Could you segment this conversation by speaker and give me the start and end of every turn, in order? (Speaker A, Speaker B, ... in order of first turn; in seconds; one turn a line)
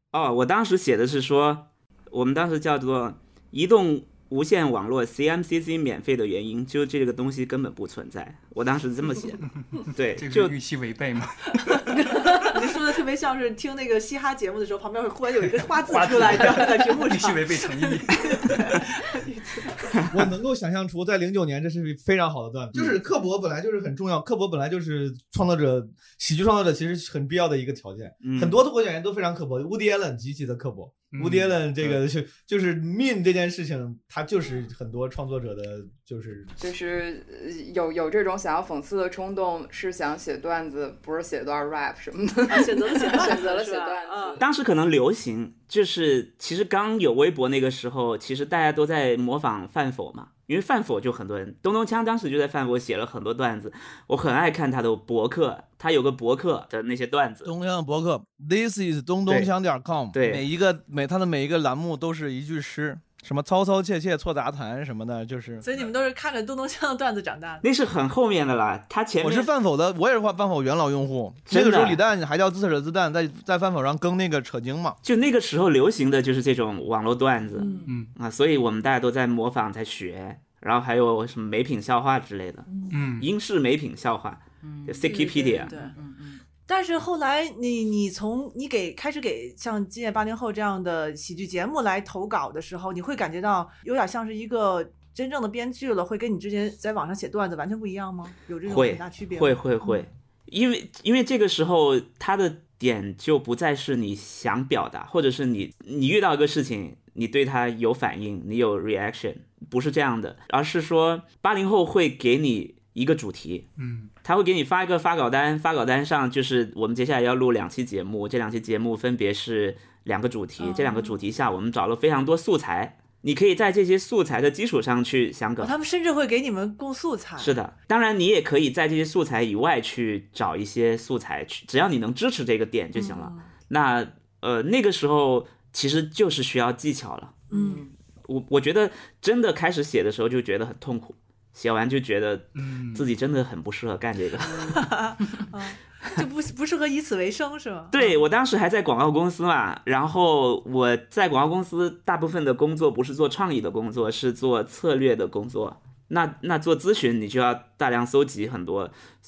Speaker A: 0.1-10.5
Speaker B: 9.8-12.1
Speaker C: 11.9-20.1
Speaker B: 15.9-18.7
Speaker D: 20.1-36.5
Speaker A: 28.2-28.6
Speaker B: 31.1-32.0
Speaker E: 36.6-44.4
Speaker C: 42.5-44.4
Speaker A: 44.4-57.5
Speaker D: 57.4-65.7
Speaker A: 60.1-60.5
Speaker C: 65.6-67.6
Speaker A: 67.6-69.5
Speaker D: 69.2-75.0
Speaker A: 71.5-72.0
Speaker A: 75.0-82.7
Speaker C: 77.5-77.9
Speaker C: 82.7-83.0
Speaker B: 82.9-83.3
Speaker A: 83.2-85.7
Speaker E: 84.6-86.4
Speaker C: 85.0-86.0
Speaker C: 86.7-100.1
Speaker A: 98.7-113.7
Speaker B: 113.8-114.1
Speaker A: 114.2-125.8
Speaker C: 120.6-121.2
Speaker C: 125.6-127.5
Speaker A: 127.4-137.4
Speaker C: 132.9-133.5
Speaker C: 137.5-137.8
Speaker E: 137.5-137.9
Speaker A: 138.3-144.8
Speaker B: 142.5-143.1
Speaker C: 144.6-148.2
Speaker A: 147.9-159.0